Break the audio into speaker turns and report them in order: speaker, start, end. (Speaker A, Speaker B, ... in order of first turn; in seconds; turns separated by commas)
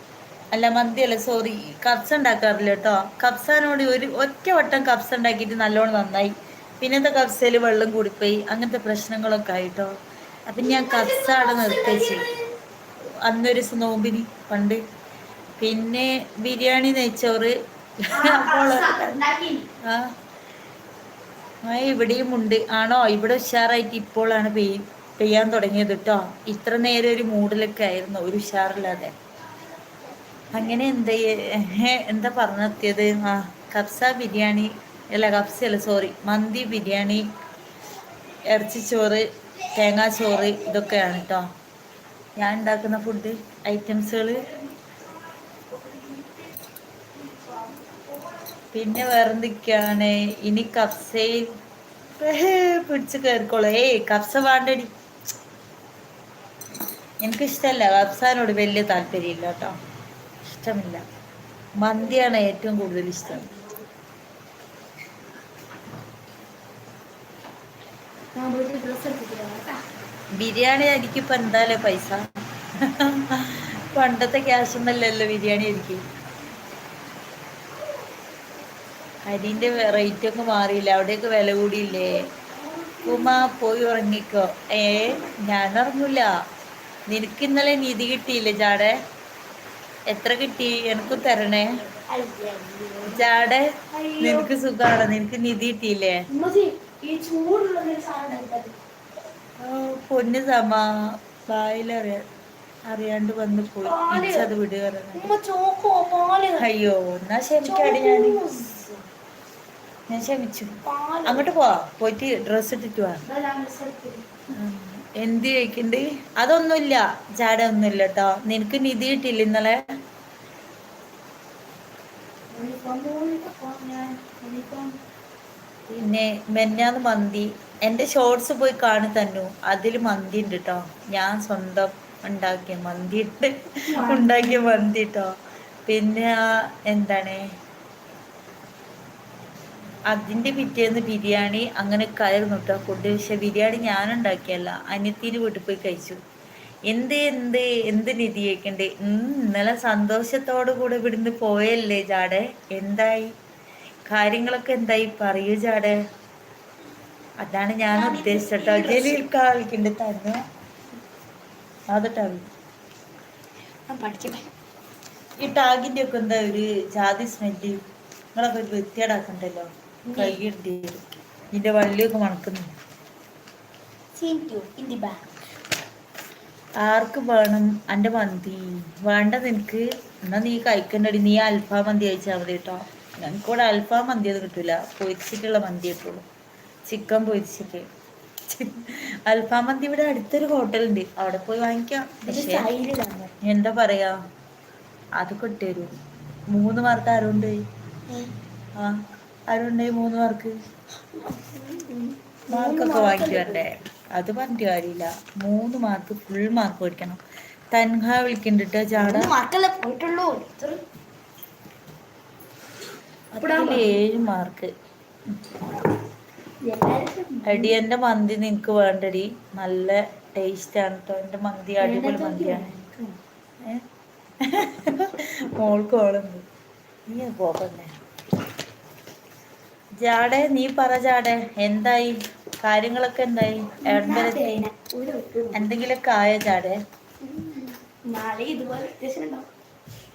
Speaker A: 0.5-9.9, Speaker A: 10.5-12.3, Speaker B: 10.6-12.5, Speaker A: 13.0-14.8, Speaker A: 15.6-19.2, Speaker B: 18.1-19.7, Speaker A: 19.8-20.1, Speaker A: 21.6-29.1, Speaker A: 30.5-37.3, Speaker A: 38.5-41.5, Speaker A: 42.4-44.5, Speaker B: 44.5-44.9, Speaker B: 45.5-46.5, Speaker B: 47.2-48.3, Speaker A: 48.7-51.5, Speaker A: 52.2-54.9, Speaker A: 57.2-59.8, Speaker A: 60.5-61.0, Speaker A: 61.8-63.5, Speaker B: 63.3-63.6, Speaker B: 68.3-69.8, Speaker A: 70.4-72.2, Speaker A: 72.8-76.0, Speaker A: 79.2-82.2, Speaker B: 82.2-83.6, Speaker A: 83.0-86.3, Speaker A: 87.1-89.0, Speaker A: 90.1-91.8, Speaker B: 92.1-93.2, Speaker A: 93.1-96.2, Speaker B: 93.9-94.5, Speaker B: 96.3-98.8, Speaker A: 99.6-102.2, Speaker A: 102.9-105.3, Speaker B: 103.8-104.5, Speaker B: 105.2-106.7, Speaker A: 106.6-108.4, Speaker B: 107.6-109.0, Speaker A: 110.1-113.2, Speaker B: 110.8-111.5, Speaker B: 113.2-114.3, Speaker A: 114.5-119.9, Speaker B: 122.5-125.0, Speaker A: 125.9-135.3, Speaker B: 133.9-134.9, Speaker A: 135.9-137.4, Speaker A: 140.1-146.2, Speaker A: 146.9-153.3, Speaker A: 154.1-156.0, Speaker A: 157.4-160.4, Speaker B: 157.9-159.3, Speaker A: 161.9-162.5, Speaker B: 163.9-164.5, Speaker A: 165.4-167.8, Speaker A: 168.3-172.7, Speaker B: 170.1-170.4, Speaker B: 174.2-175.3, Speaker A: 176.8-186.2, Speaker A: 186.9-187.9, Speaker A: 188.5-192.7, Speaker B: 192.2-193.3, Speaker A: 193.4-194.2, Speaker A: 195.2-195.9, Speaker A: 196.5-197.6, Speaker A: 198.8-200.6, Speaker B: 201.1-203.7, Speaker A: 202.5-207.2, Speaker A: 207.7-209.3, Speaker B: 209.0-210.8, Speaker A: 213.3-214.7, Speaker B: 213.4-214.0, Speaker B: 216.6-217.8, Speaker A: 217.5-222.7, Speaker B: 221.8-223.2, Speaker A: 224.4-226.4, Speaker A: 227.1-228.0, Speaker A: 230.0-234.7, Speaker B: 233.8-235.7, Speaker A: 235.5-236.8, Speaker B: 237.2-239.5